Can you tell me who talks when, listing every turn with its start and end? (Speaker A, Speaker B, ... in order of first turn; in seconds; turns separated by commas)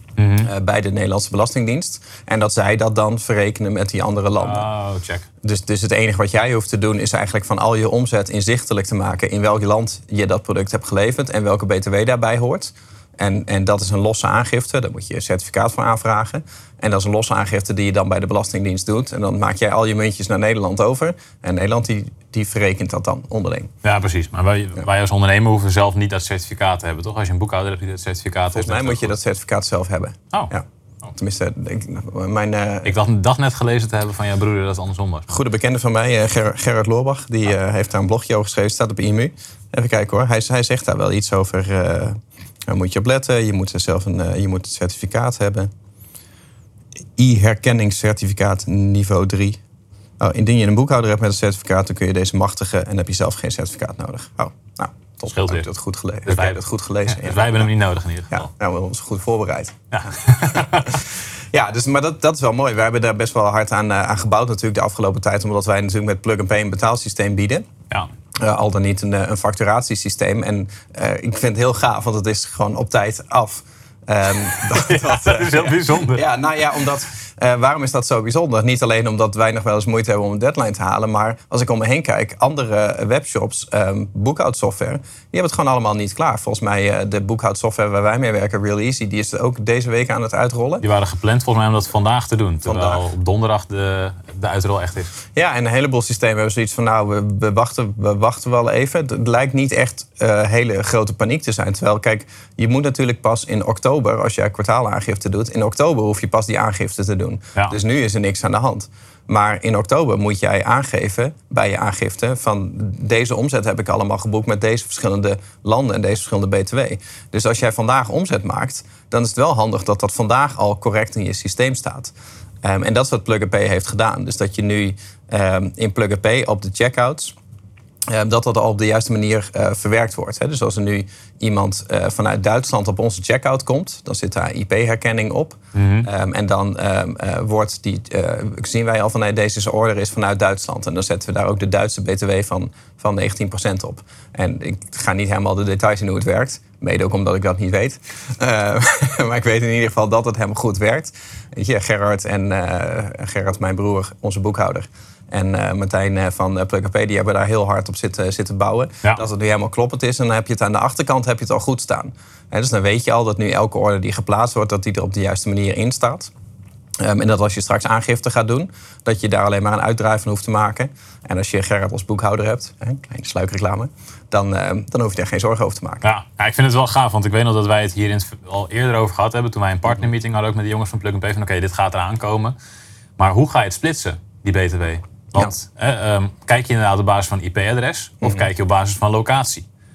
Speaker A: 0.2-0.5, Speaker B: 0.4-4.7, Speaker A: 4.4-5.3, Speaker B: 5.4-23.7, Speaker A: 23.8-29.1, Speaker B: 28.5-33.0, Speaker A: 32.8-35.4, Speaker B: 35.3-45.7, Speaker B: 47.2-49.6, Speaker B: 50.2-57.7, Speaker A: 55.2-55.7, Speaker A: 56.2-58.5, Speaker B: 58.3-67.6, Speaker A: 59.9-61.0, Speaker B: 68.4-90.8, Speaker A: 74.6-76.2, Speaker A: 90.8-95.1, Speaker B: 92.6-93.0, Speaker B: 95.3-127.3, Speaker B: 128.1-166.3, Speaker A: 135.7-136.1, Speaker B: 167.0-176.1, Speaker A: 176.0-182.5, Speaker A: 183.2-189.7, Speaker B: 188.2-188.5